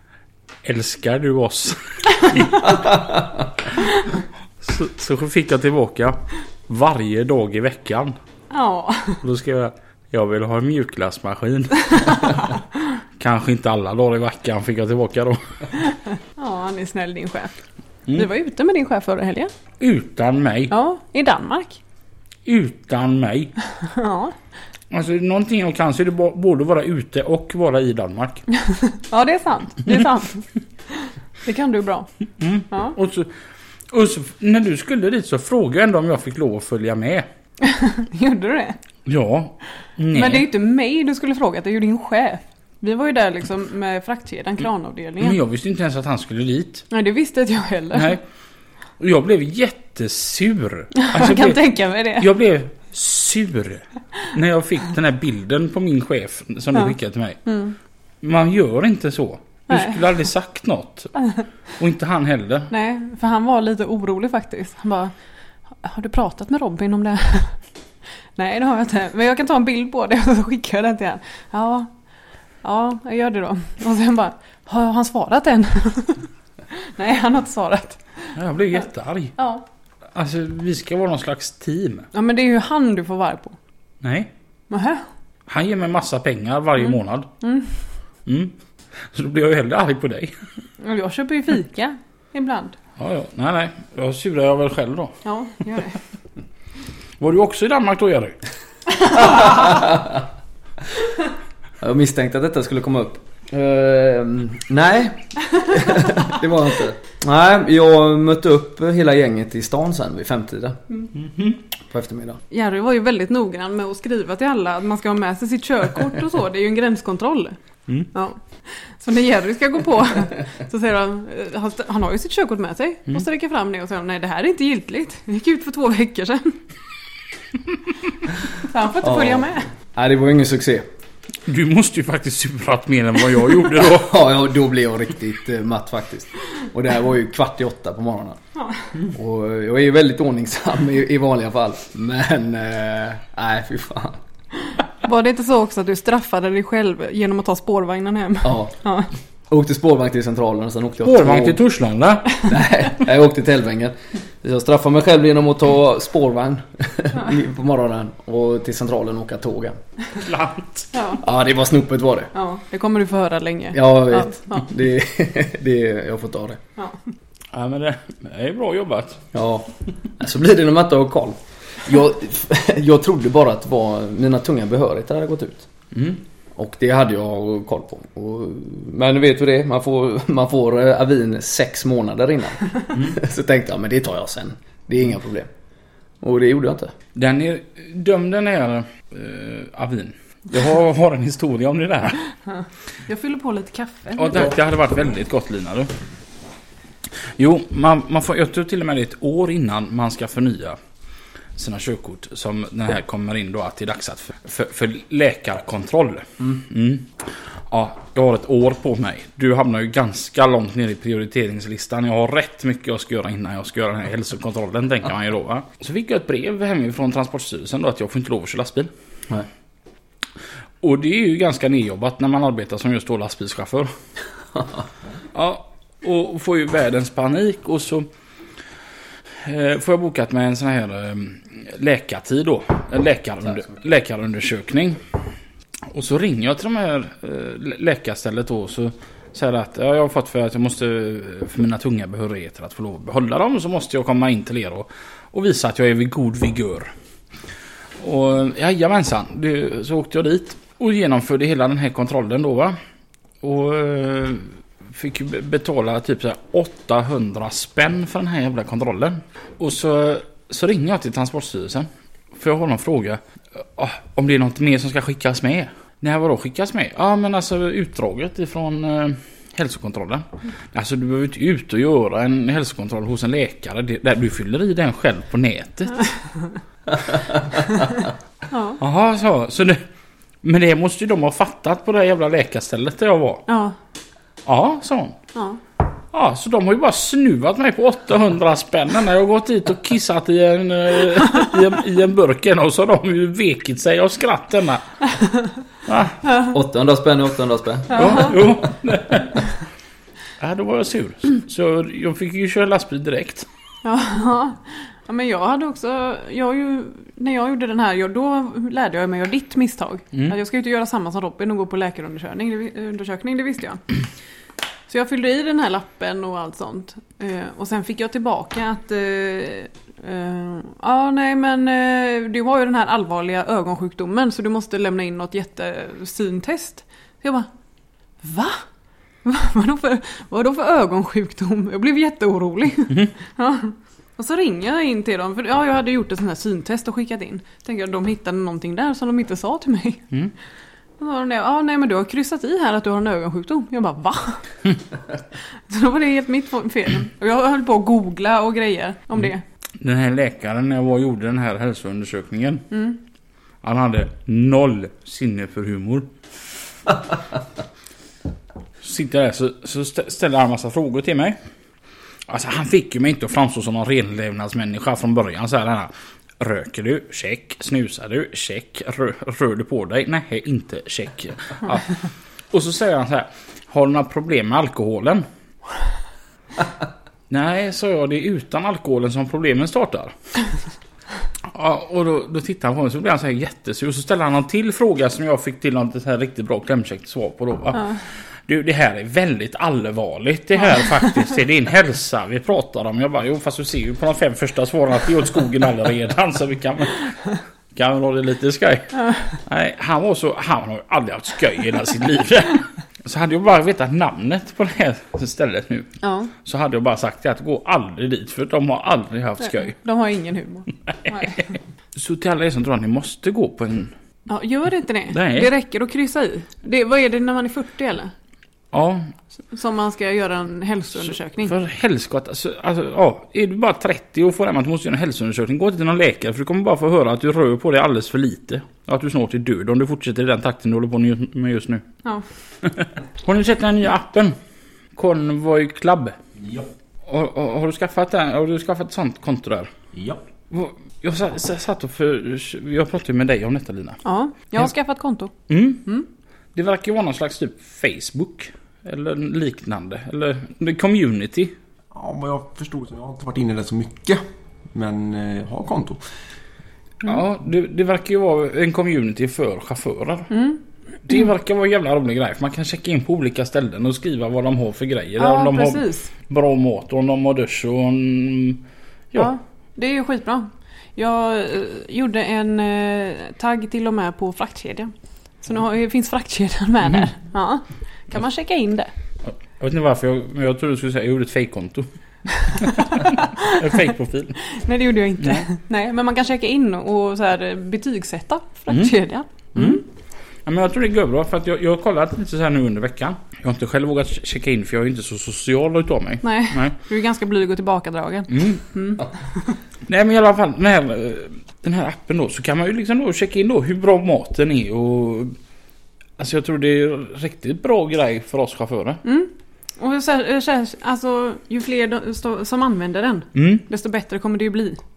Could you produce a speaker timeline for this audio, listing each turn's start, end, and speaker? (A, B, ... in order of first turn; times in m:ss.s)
0:00.6-0:03.0 A
0:04.6-0:08.2 A
0:08.5-0:09.2 B
0:09.2-0:12.5 A
0:13.2-0:15.4 A
0:16.4-0:17.5 B
0:18.1-0:19.5 B
0:19.8-0:20.7 A
0:20.7-0:21.8 B
0:22.5-0:23.5 A
0:23.8-0:24.4 B
0:24.9-0:28.5 A
0:28.7-0:32.1 B
0:32.4-0:33.3 A
0:33.9-0:37.3 A
0:37.6-0:38.8 B
0:39.1-0:40.5 A
0:40.1-0:45.4 B
0:45.2-0:46.9 A
0:46.9-0:48.2 B
0:47.9-0:48.2 A
0:49.0-0:57.4 A
0:51.0-0:52.3 B
0:57.5-0:57.8 B
0:58.2-1:01.1 A
0:59.7-1:00.0 B
1:01.8-1:02.7 A
1:02.7-1:05.1 B
1:05.8-1:07.6 B
1:08.4-1:11.9 B
1:12.6-1:18.3 B
1:18.4-1:19.4 A
1:19.4-1:19.6 B
1:20.1-1:22.1 A
1:22.1-1:23.6 B
1:24.0-1:24.3 A
1:24.7-1:25.0 B
1:25.5-1:27.3 A
1:27.4-1:27.7 B
1:28.3-1:28.5 A
1:29.1-1:30.3 A
1:30.8-1:32.8 B
1:33.0-1:35.2 A
1:35.2-1:36.0 B
1:37.2-1:38.4 A
1:39.4-1:40.2 C
1:41.8-1:50.8 C
1:51.9-1:52.4 C
1:52.5-1:57.6 B
1:58.1-2:06.6 B
2:08.6-2:09.7 B
2:09.0-2:10.9 C
2:11.5-2:14.2 A
2:13.9-2:18.4 C
2:19.0-2:24.2 C
2:25.0-2:29.1 B
2:28.4-2:28.7 C
2:29.5-2:31.6 C
2:31.0-2:32.5 A
2:32.4-2:39.8 C
2:40.2-2:40.9 A
2:40.9-2:41.2 B
2:41.2-2:42.3 C
2:42.3-2:44.7 B
2:43.7-2:46.6 C
2:47.5-2:49.3 A
2:49.3-2:55.7 C
2:55.9-2:56.2 A
2:56.6-3:05.5 C
3:06.2-3:06.9 C
3:07.2-3:12.2 A
3:13.1-3:14.5 B
3:14.2-3:15.9 A
3:17.4-3:20.8 A
3:21.6-3:38.9 A
3:40.8-3:43.9 A
3:45.3-3:48.1 A
3:49.4-3:55.0 A
3:55.9-4:06.9 A
4:08.0-4:12.8 A
4:13.4-4:36.1 A
4:38.5-4:38.8 B
4:38.8-4:39.8 A
4:40.4-4:43.4 A
4:43.5-4:43.8 B
4:44.5-4:45.2 A
4:45.4-4:45.6 B
4:46.1-4:54.8 A
4:55.9-4:56.2 A
4:56.4-4:58.4 C
4:57.9-4:58.3 B
4:57.9-4:59.5 A
5:00.4-5:03.5 A
5:03.8-5:13.8 B
5:14.9-5:27.5 B
5:28.2-5:28.6 B
5:29.2-5:40.0 B
5:41.0-5:44.4 B
5:45.7-5:49.4 B
5:49.8-5:52.7 A
5:52.7-5:53.0 B
5:53.6-5:56.1 A
5:58.8-6:01.4 A
6:02.3-6:12.0 A
6:12.5-6:15.2 A
6:17.3-6:20.1 A
6:21.5-6:37.2 A
6:37.8-6:45.9 A
6:46.0-6:46.3 B
6:46.4-6:49.7 A
6:49.4-6:51.5 B
6:52.0-6:53.9 A
6:54.3-6:58.1 B
6:55.1-6:55.5 A
6:58.7-6:59.1 A
6:59.5-7:01.5 B
7:01.0-7:11.8 A
7:12.6-7:14.4 A
7:15.0-7:16.2 A
7:17.1-7:19.7 A
7:20.5-7:24.0 A
7:24.0-7:25.3 B
7:25.5-7:25.9 A
7:26.6-7:31.5 A
7:31.9-7:36.0 D
7:37.0-7:40.3 A
7:40.3-7:40.6 B
7:41.0-7:49.3 A
7:45.2-7:46.1 B
7:49.2-7:58.9 B
7:59.2-8:04.4 A
8:04.5-8:09.8 B
8:08.7-8:08.9 A
8:09.6-8:09.8 A
8:10.5-8:16.8 A
8:16.2-8:19.5 B
8:18.3-8:18.6 A
8:19.9-8:25.4 A
8:26.2-8:29.0 A
8:29.0-8:34.8 B
8:33.4-8:33.6 A